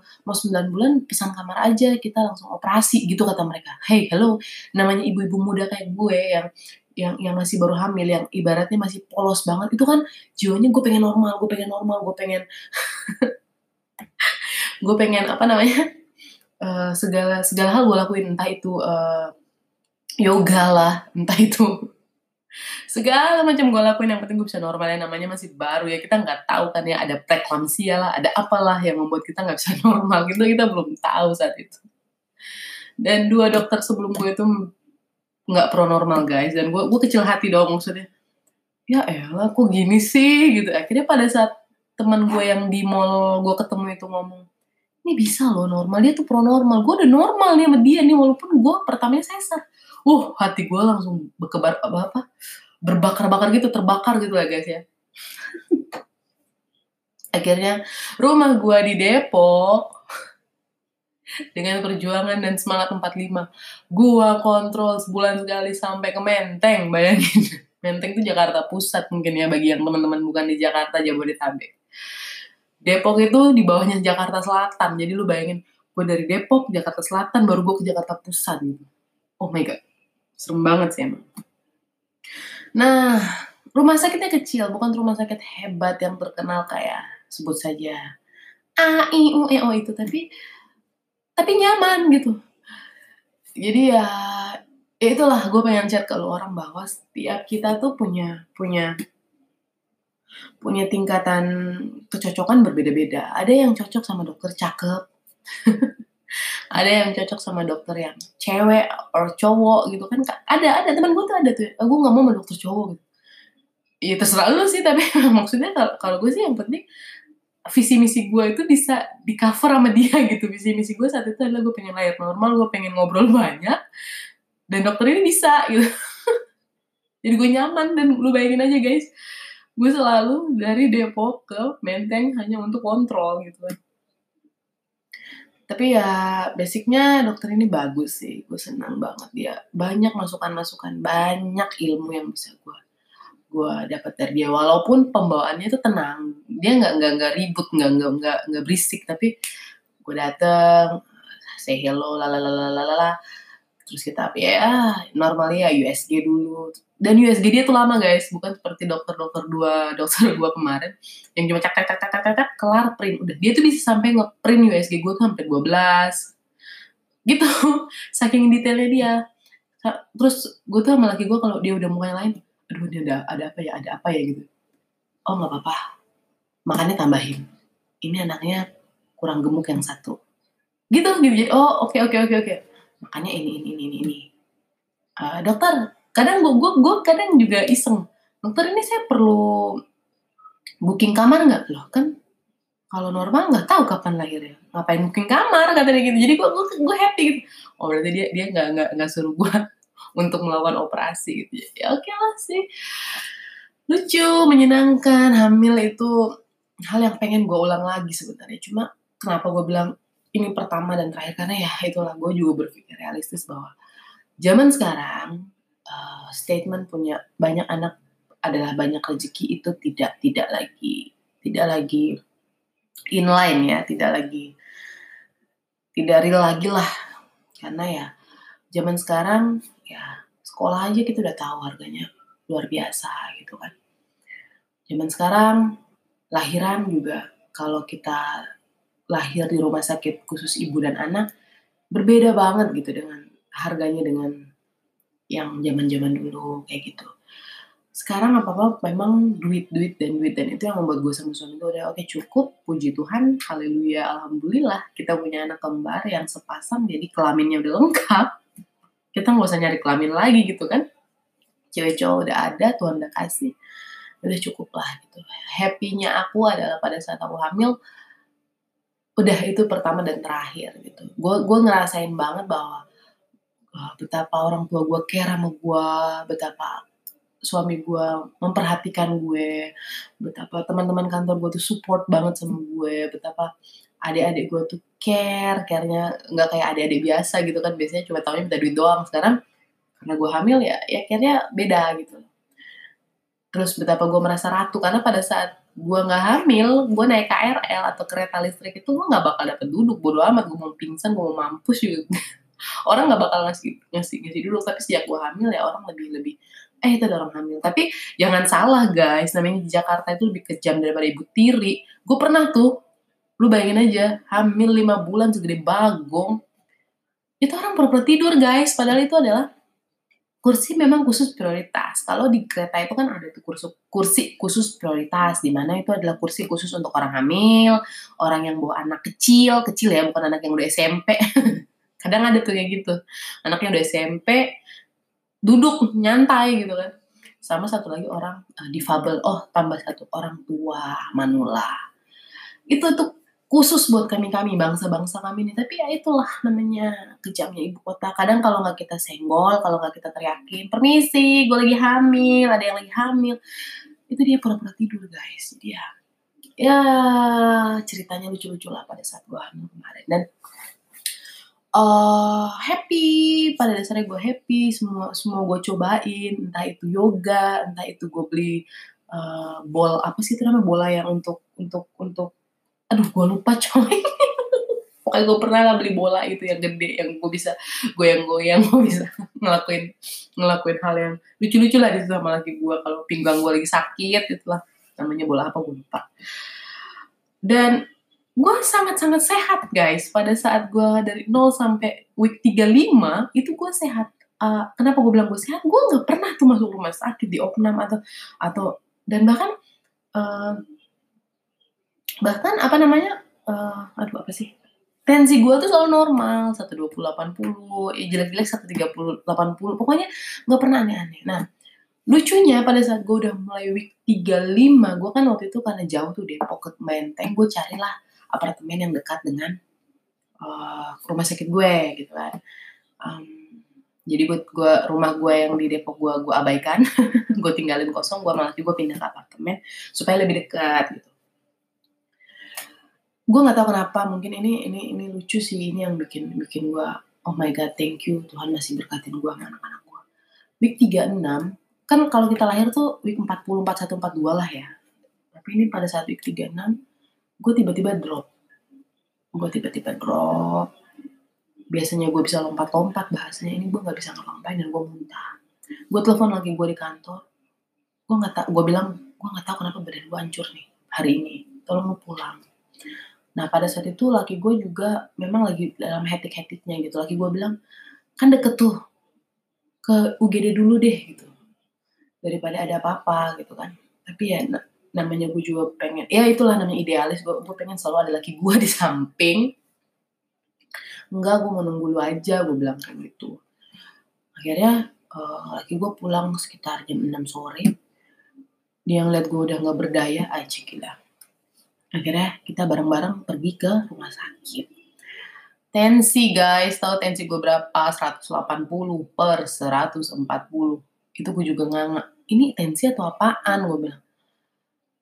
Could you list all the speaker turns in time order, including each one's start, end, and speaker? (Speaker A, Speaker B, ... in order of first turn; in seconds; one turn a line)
Speaker A: 0.3-6.5
Speaker A: 7.0-12.4
Speaker A: 14.2-15.8
Speaker A: 16.6-19.3
Speaker A: 20.2-21.7
Speaker A: 22.9-31.8
Speaker A: 33.0-34.5
Speaker A: 35.5-38.1
Speaker A: 38.9-44.5
Speaker A: 45.1-52.2
Speaker A: 52.9-54.8
Speaker A: 57.4-59.9
Speaker A: 61.5-71.7
Speaker A: 72.9-78.9
Speaker A: 79.4-79.8
Speaker A: 80.4-81.2
Speaker A: 82.8-83.2
Speaker A: 83.8-88.0
Speaker A: 88.8-90.2
Speaker A: 91.4-92.4
Speaker A: 93.6-98.9
Speaker A: 100.6-101.5
Speaker A: 102.1-105.0
Speaker A: 105.7-105.9
Speaker A: 106.8-113.0
Speaker A: 114.0-116.8
Speaker A: 117.7-123.8
Speaker A: 124.7-125.9
Speaker A: 127.2-129.1
Speaker A: 129.8-133.7
Speaker A: 135.7-142.8
Speaker A: 143.5-149.3
Speaker A: 150.0-151.0
Speaker A: 151.6-153.1
Speaker A: 153.9-166.3
Speaker A: 167.3-169.2
Speaker A: 169.8-174.5
Speaker A: 175.3-175.8
Speaker A: 176.7-177.4
Speaker A: 178.0-178.6
Speaker A: 179.2-180.2
Speaker A: 180.9-184.3
Speaker A: 185.2-189.5
Speaker A: 190.9-192.1
Speaker A: 192.9-199.6
Speaker A: 200.2-202.7
Speaker A: 203.9-206.2
Speaker A: 206.9-213.7
Speaker A: 214.4-215.3
Speaker A: 215.9-217.9
Speaker A: 218.5-222.1
Speaker A: 223.2-224.5
Speaker A: 226.0-226.9
Speaker A: 227.6-228.1
Speaker A: 228.8-233.7
Speaker A: 234.9-235.6
Speaker A: 236.3-238.2
Speaker A: 239.1-241.3
Speaker A: 241.9-244.3
Speaker A: 245.3-247.1
Speaker A: 248.0-258.3
Speaker A: 259.1-260.8
Speaker A: 261.7-263.5
Speaker A: 264.2-267.7
Speaker A: 269.2-272.8
Speaker A: 273.8-276.8
Speaker A: 277.5-279.7
Speaker A: 280.2-283.5
Speaker A: 284.1-289.4
Speaker A: 290.0-292.3
Speaker A: 293.5-302.2
Speaker A: 302.9-312.7
Speaker A: 313.4-316.4
Speaker A: 317.4-319.5
Speaker A: 320.4-331.2
Speaker A: 332.0-334.4
Speaker A: 335.5-336.9
Speaker A: 337.4-341.8
Speaker A: 342.7-353.4
Speaker A: 354.1-355.9
Speaker A: 356.6-360.2
Speaker A: 361.8-368.6
Speaker A: 369.1-372.3
Speaker A: 372.9-386.1
Speaker A: 387.5-387.8
Speaker A: 388.4-399.5
Speaker A: 400.2-400.6
Speaker A: 402.2-404.5
Speaker A: 405.1-411.4
Speaker A: 412.1-419.6
Speaker A: 420.4-422.3
Speaker A: 423.1-423.5
Speaker A: 424.1-426.9
Speaker A: 427.4-431.1
Speaker A: 433.3-440.0
Speaker A: 440.6-444.7
Speaker A: 445.3-446.7
Speaker A: 447.4-448.3
Speaker A: 449.4-450.7
Speaker A: 451.7-455.3
Speaker A: 455.9-457.2
Speaker A: 458.1-462.4
Speaker A: 463.4-467.5
Speaker A: 468.2-468.7
Speaker A: 469.9-471.3
Speaker A: 472.2-479.5
Speaker A: 481.1-483.4
Speaker A: 484.4-487.7
Speaker A: 488.9-490.9
Speaker A: 492.0-494.7
Speaker A: 495.7-504.0